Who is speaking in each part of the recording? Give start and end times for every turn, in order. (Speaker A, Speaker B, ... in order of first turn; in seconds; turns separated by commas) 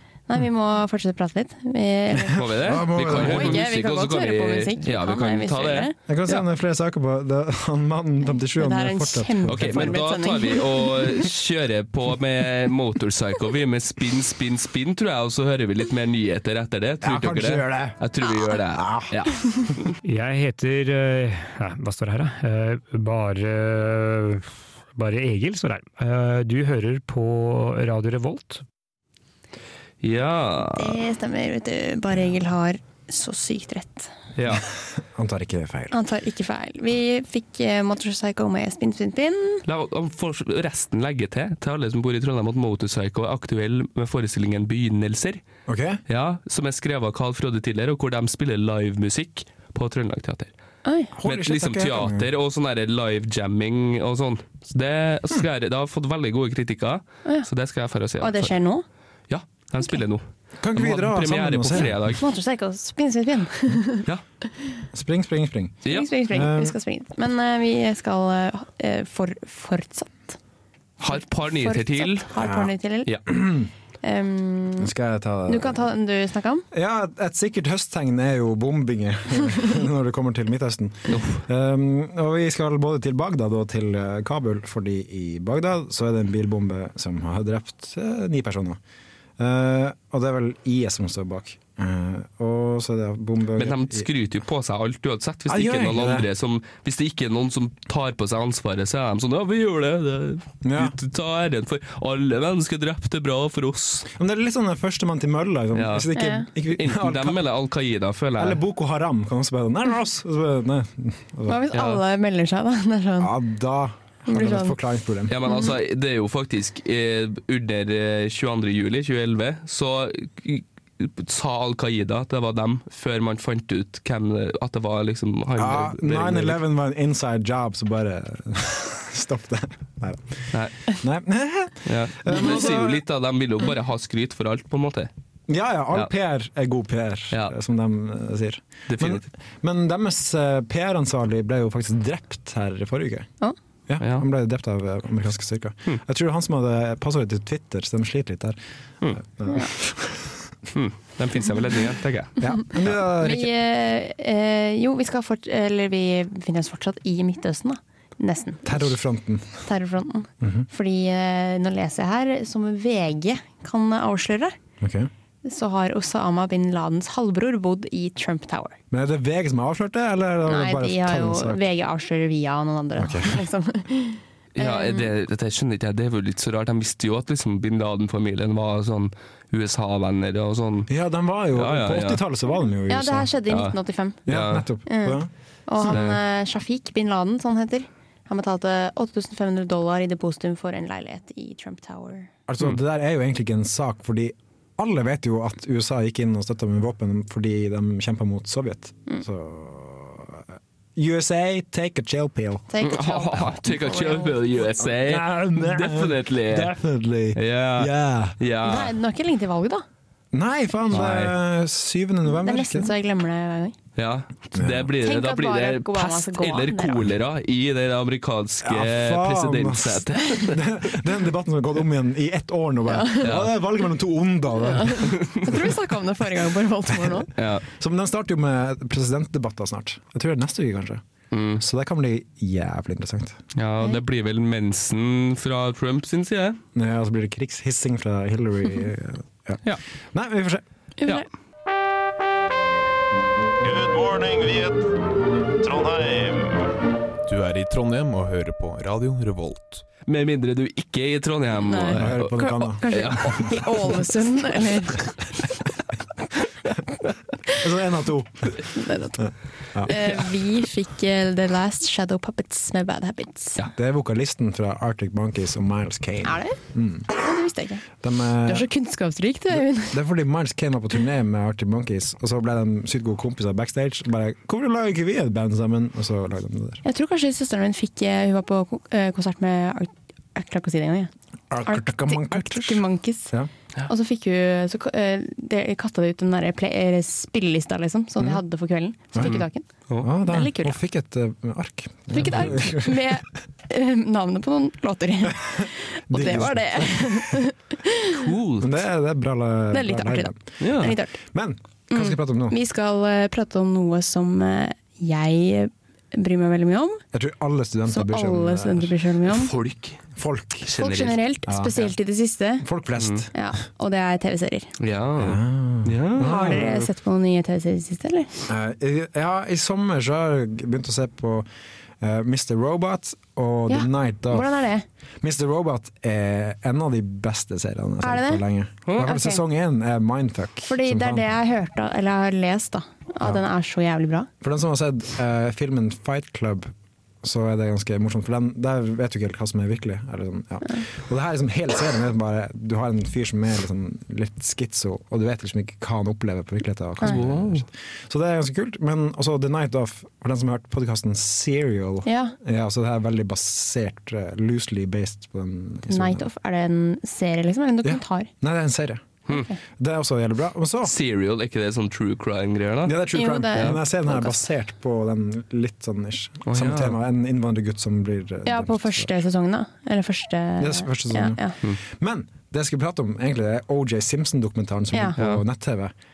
Speaker A: 0.3-6.0, Speaker B: 2.3-6.4, Speaker C: 2.4-3.7, Speaker C: 6.1-10.0, Speaker A: 8.6-11.2, Speaker B: 9.5-20.0, Speaker C: 17.0-18.0, Speaker C: 18.7-19.1, Speaker D: 20.0-28.6, Speaker B: 30.0-31.0, Speaker A: 30.6-34.1, Speaker B: 34.4-34.7, Speaker C: 35.0-35.9, Speaker A: 35.9-39.6, Speaker B: 39.7-45.5, Speaker C: 45.7-46.0, Speaker B: 46.1-50.5, Speaker A: 50.9-51.1, Speaker C: 51.2-52.3, Speaker B: 51.2-58.5, Speaker A: 58.2-58.9, Speaker B: 59.3-60.2, Speaker C: 60.6-62.1, Speaker B: 60.8-62.2, Speaker A: 62.2-64.0, Speaker C: 64.9-66.8, Speaker A: 65.9-70.4, Speaker B: 71.0-72.3, Speaker A: 71.0-73.1, Speaker C: 72.4-72.7, Speaker C: 73.3-73.7, Speaker A: 74.0-74.9, Speaker C: 74.8-75.8, Speaker A: 75.5-76.7, Speaker C: 76.7-88.8, Speaker B: 81.1-81.4, Speaker C: 89.4-94.1, Speaker B: 93.6-104.1, Speaker C: 95.5-96.3, Speaker C: 100.6-101.0, Speaker C: 104.1-107.4, Speaker B: 105.8-106.1, Speaker A: 106.2-106.5, Speaker B: 106.7-108.6, Speaker C: 108.4-111.7, Speaker A: 111.5-113.4, Speaker B: 111.7-112.0, Speaker C: 113.2-115.4, Speaker A: 114.3-114.8, Speaker B: 115.3-126.6, Speaker A: 115.5-115.7, Speaker C: 125.6-130.5, Speaker C: 131.0-133.0, Speaker B: 131.8-135.1, Speaker C: 135.5-143.3, Speaker B: 138.9-139.3, Speaker C: 143.9-148.6, Speaker C: 149.2-150.4, Speaker B: 150.7-152.9, Speaker C: 152.4-153.5, Speaker A: 153.1-159.0, Speaker C: 158.7-159.6, Speaker A: 159.6-164.6, Speaker C: 164.8-165.1, Speaker A: 165.4-168.8, Speaker C: 168.9-171.6, Speaker A: 170.5-175.1, Speaker C: 173.0-173.4, Speaker B: 174.6-180.9, Speaker C: 180.9-183.3, Speaker B: 181.6-182.2, Speaker A: 182.9-184.2, Speaker B: 183.5-183.7, Speaker C: 184.3-186.2, Speaker B: 184.3-184.7, Speaker A: 184.9-192.3, Speaker B: 185.8-186.2, Speaker C: 192.5-202.7, Speaker A: 202.7-204.6, Speaker B: 202.8-206.8, Speaker C: 204.8-208.4, Speaker B: 207.3-208.9, Speaker A: 208.6-209.8, Speaker C: 210.3-212.9, Speaker B: 210.9-211.3, Speaker A: 212.3-213.8, Speaker B: 214.0-220.8, Speaker C: 214.6-214.9, Speaker A: 215.0-217.0, Speaker C: 218.6-225.8, Speaker A: 222.9-223.4, Speaker B: 223.2-223.5, Speaker A: 224.6-227.3, Speaker B: 225.1-225.5, Speaker C: 226.9-231.0, Speaker B: 227.4-227.7, Speaker B: 231.3-231.6, Speaker C: 231.6-233.4, Speaker B: 233.6-236.6, Speaker C: 236.8-239.6, Speaker C: 240.1-240.6, Speaker A: 241.0-241.3, Speaker E: 247.3-249.8, Speaker B: 250.1-252.3, Speaker A: 251.6-255.2, Speaker C: 251.9-252.9, Speaker B: 252.9-253.7, Speaker C: 257.5-258.6, Speaker A: 258.7-263.6, Speaker C: 259.2-259.9, Speaker C: 263.7-267.1, Speaker A: 266.2-267.9, Speaker C: 268.0-268.7, Speaker A: 268.5-270.0, Speaker C: 269.6-276.8, Speaker A: 276.8-281.1, Speaker C: 281.5-283.5, Speaker A: 281.6-283.3, Speaker A: 283.9-289.7, Speaker B: 289.2-290.1, Speaker C: 290.0-293.2, Speaker A: 290.2-290.8, Speaker A: 292.1-298.2, Speaker B: 292.2-292.6, Speaker C: 296.1-297.4, Speaker B: 298.1-298.8, Speaker C: 298.6-302.6, Speaker A: 299.7-301.2, Speaker B: 300.6-301.0, Speaker A: 301.9-307.0, Speaker C: 307.1-309.0, Speaker A: 307.9-309.5, Speaker B: 309.3-310.0, Speaker C: 310.2-310.7, Speaker B: 310.6-311.2, Speaker A: 310.7-312.6, Speaker C: 311.5-311.9, Speaker C: 312.6-313.3, Speaker B: 313.0-313.2, Speaker A: 313.3-314.7, Speaker B: 314.8-316.9, Speaker C: 315.2-316.7, Speaker A: 316.2-318.3, Speaker C: 318.5-321.5, Speaker C: 322.0-324.5, Speaker A: 323.7-324.8, Speaker C: 325.2-331.2, Speaker A: 328.0-328.4, Speaker A: 329.0-329.4, Speaker A: 330.6-334.3, Speaker C: 334.4-356.3, Speaker B: 347.0-347.6, Speaker A: 352.1-352.4, Speaker A: 355.9-358.3, Speaker C: 357.8-359.1, Speaker C: 359.8-360.9, Speaker B: 360.8-363.0, Speaker C: 362.9-369.1, Speaker A: 363.1-364.4, Speaker B: 366.5-367.0, Speaker A: 368.4-371.6, Speaker C: 370.6-375.9, Speaker B: 375.2-375.4